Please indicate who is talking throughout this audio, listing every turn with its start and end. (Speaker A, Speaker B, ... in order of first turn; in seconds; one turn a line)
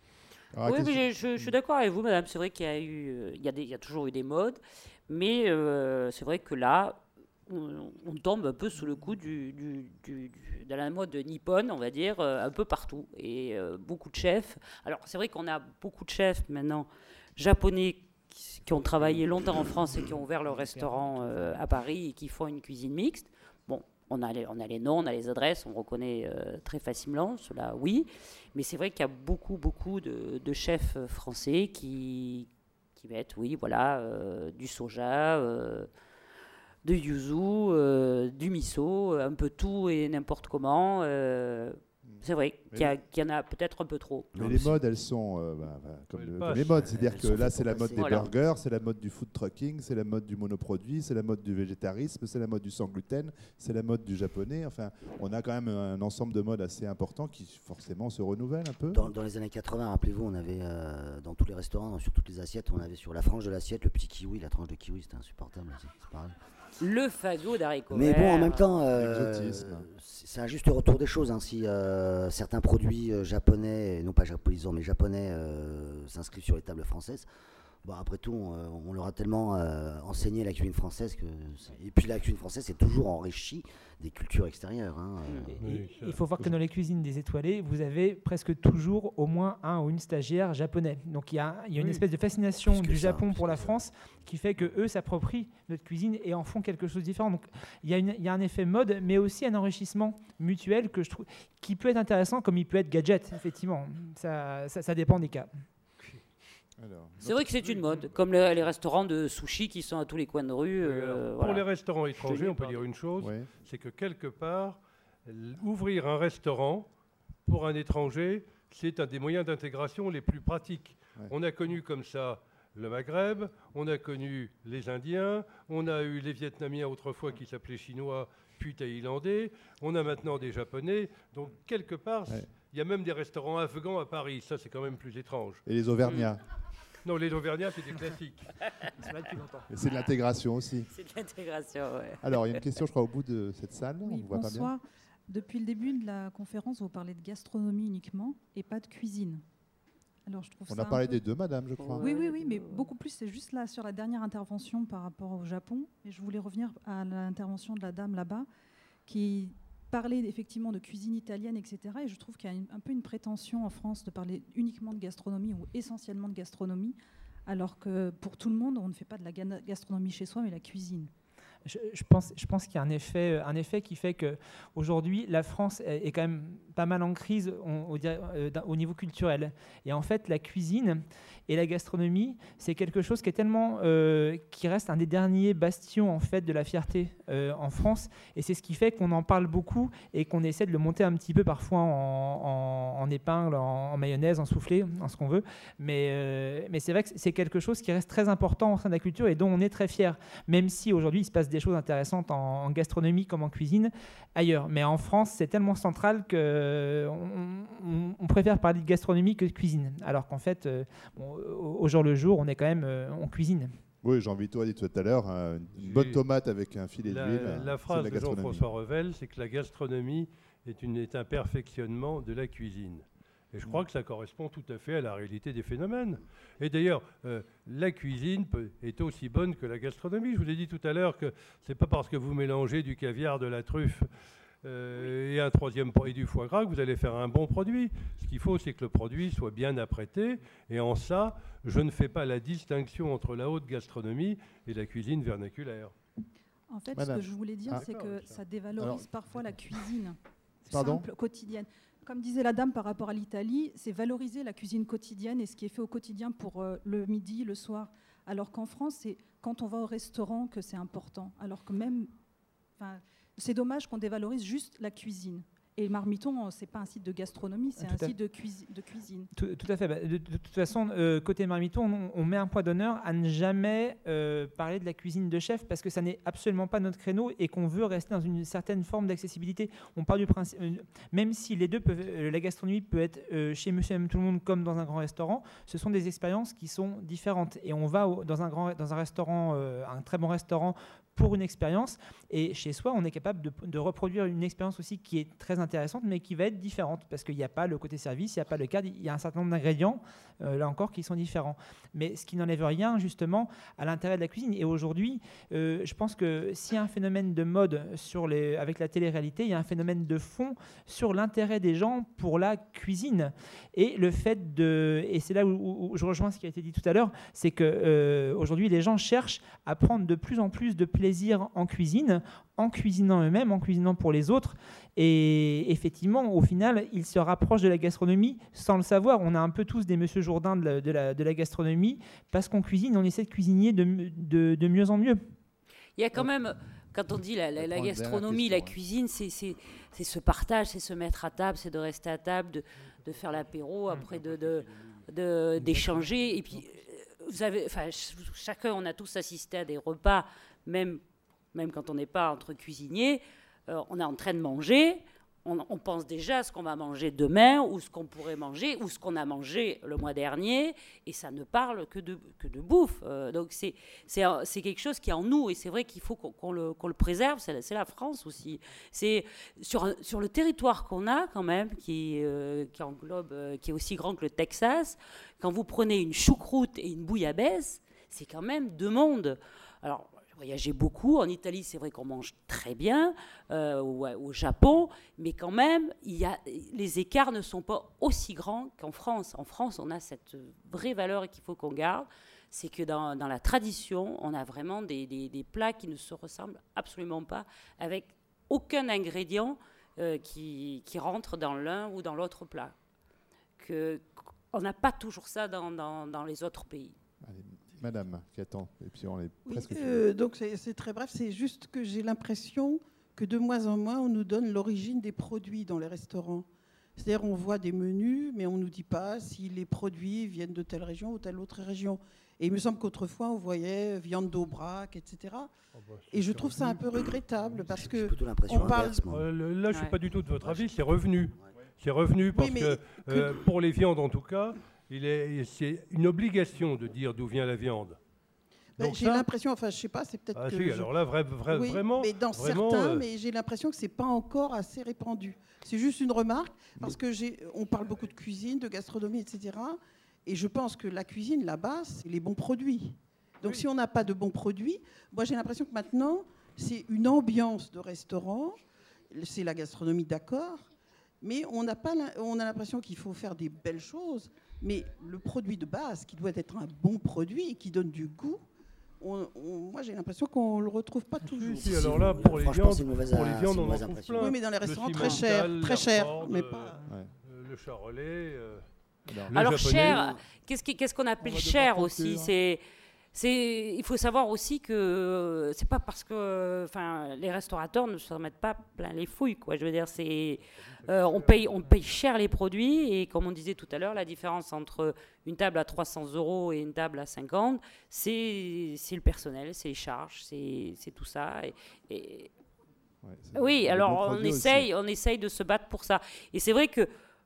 Speaker A: 0.5-1.5
Speaker B: 0.6-35.9
Speaker C: 20.5-21.6
Speaker B: 36.8-44.3
Speaker A: 42.0-43.0
Speaker D: 44.3-44.8
Speaker A: 44.4-59.1
Speaker E: 46.1-46.9
Speaker D: 46.8-48.3
Speaker B: 48.0-48.3
Speaker D: 58.9-66.3
Speaker B: 66.8-68.6
Speaker D: 67.9-77.3
Speaker A: 68.9-69.8
Speaker D: 77.8-85.6
Speaker E: 85.6-86.2
Speaker C: 85.6-105.5
Speaker D: 92.6-93.7
Speaker A: 106.8-107.4
Speaker B: 107.2-112.8
Speaker E: 107.6-108.1
Speaker E: 110.8-116.9
Speaker A: 113.2-113.5
Speaker E: 117.5-135.6
Speaker A: 135.7-136.4
Speaker E: 137.0-138.5
Speaker C: 139.0-139.7
Speaker A: 139.7-140.9
Speaker B: 140.9-142.6
Speaker A: 142.2-144.7
Speaker F: 144.0-149.4
Speaker F: 150.2-151.2
Speaker A: 150.7-152.1
Speaker B: 151.8-152.9
Speaker F: 152.0-158.5
Speaker F: 159.1-171.1
Speaker C: 171.6-213.7
Speaker A: 214.0-218.6
Speaker E: 215.8-216.2
Speaker E: 217.0-234.1
Speaker E: 234.6-245.9
Speaker F: 246.7-262.1
Speaker A: 246.9-247.8
Speaker E: 247.8-248.4
Speaker A: 248.8-249.1
Speaker A: 250.7-251.0
Speaker F: 262.8-269.3
Speaker C: 267.8-268.1
Speaker C: 269.3-335.2
Speaker B: 336.0-351.0
Speaker A: 337.6-338.7
Speaker E: 344.1-344.6
Speaker E: 345.6-346.6
Speaker B: 351.5-402.7
Speaker B: 403.6-407.0
Speaker A: 407.2-410.0
Speaker G: 409.4-425.5
Speaker E: 425.7-427.7
Speaker G: 426.1-429.0
Speaker D: 427.5-429.3
Speaker E: 428.5-438.0
Speaker D: 430.4-430.8
Speaker G: 432.3-433.3
Speaker E: 438.8-439.3
Speaker G: 438.8-440.9
Speaker E: 440.3-443.0
Speaker G: 441.5-460.7
Speaker G: 461.2-468.4
Speaker G: 469.0-471.9
Speaker E: 471.2-478.6
Speaker D: 471.6-474.3
Speaker G: 474.2-476.8
Speaker A: 479.1-479.4
Speaker E: 479.2-480.1
Speaker B: 479.3-482.6
Speaker D: 479.8-480.2
Speaker A: 481.2-482.3
Speaker B: 483.1-502.3
Speaker E: 490.6-491.8
Speaker A: 503.0-504.7
Speaker B: 503.3-506.9